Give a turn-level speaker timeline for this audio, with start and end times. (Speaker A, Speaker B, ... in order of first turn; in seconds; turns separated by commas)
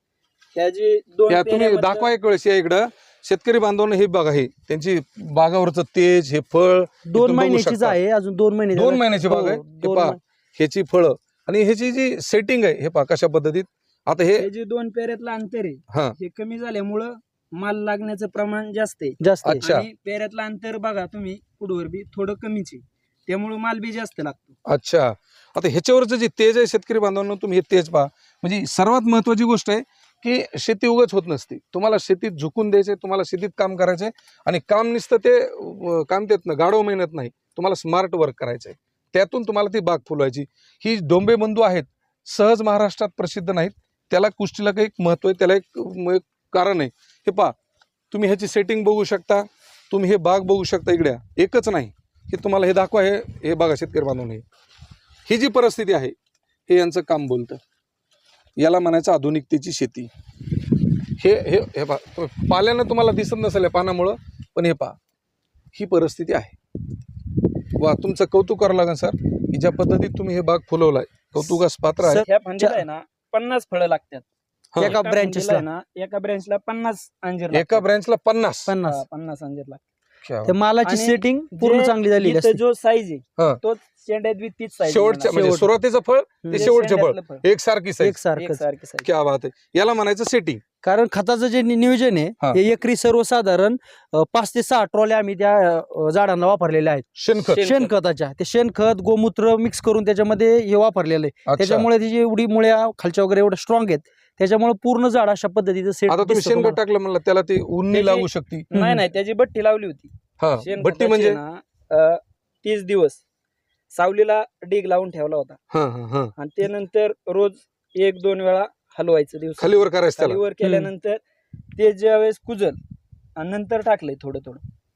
Speaker A: 0.5-2.1, Speaker B: 1.3-8.0, Speaker C: 7.1-10.2, Speaker B: 8.8-14.5, Speaker A: 14.4-24.6, Speaker B: 15.9-16.2, Speaker C: 19.2-19.7, Speaker B: 19.4-19.9, Speaker B: 24.7-47.5, Speaker B: 48.1-54.5, Speaker B: 55.3-56.1, Speaker B: 56.7-57.6, Speaker B: 58.6-60.1, Speaker B: 61.2-65.0, Speaker B: 65.7-66.5, Speaker B: 67.8-72.3, Speaker C: 72.0-72.8, Speaker A: 72.2-74.2, Speaker C: 74.8-75.7, Speaker A: 74.8-77.8, Speaker B: 77.5-78.8, Speaker C: 78.7-79.0, Speaker A: 78.8-79.8, Speaker B: 80.2-80.5, Speaker C: 80.5-82.6, Speaker A: 80.8-85.5, Speaker B: 84.9-88.2, Speaker C: 85.3-85.7, Speaker C: 86.4-86.7, Speaker A: 86.5-87.4, Speaker C: 88.0-88.6, Speaker A: 88.4-89.1, Speaker B: 89.0-90.6, Speaker C: 90.8-106.8, Speaker B: 97.2-97.7, Speaker A: 97.5-97.9, Speaker B: 101.5-101.9, Speaker B: 106.1-108.7, Speaker A: 107.9-113.2, Speaker C: 108.7-109.0, Speaker B: 110.4-111.4, Speaker A: 113.9-115.6, Speaker B: 115.7-116.3, Speaker A: 116.4-121.2, Speaker B: 119.6-120.4, Speaker C: 120.6-120.9, Speaker A: 121.8-122.8, Speaker A: 123.4-124.6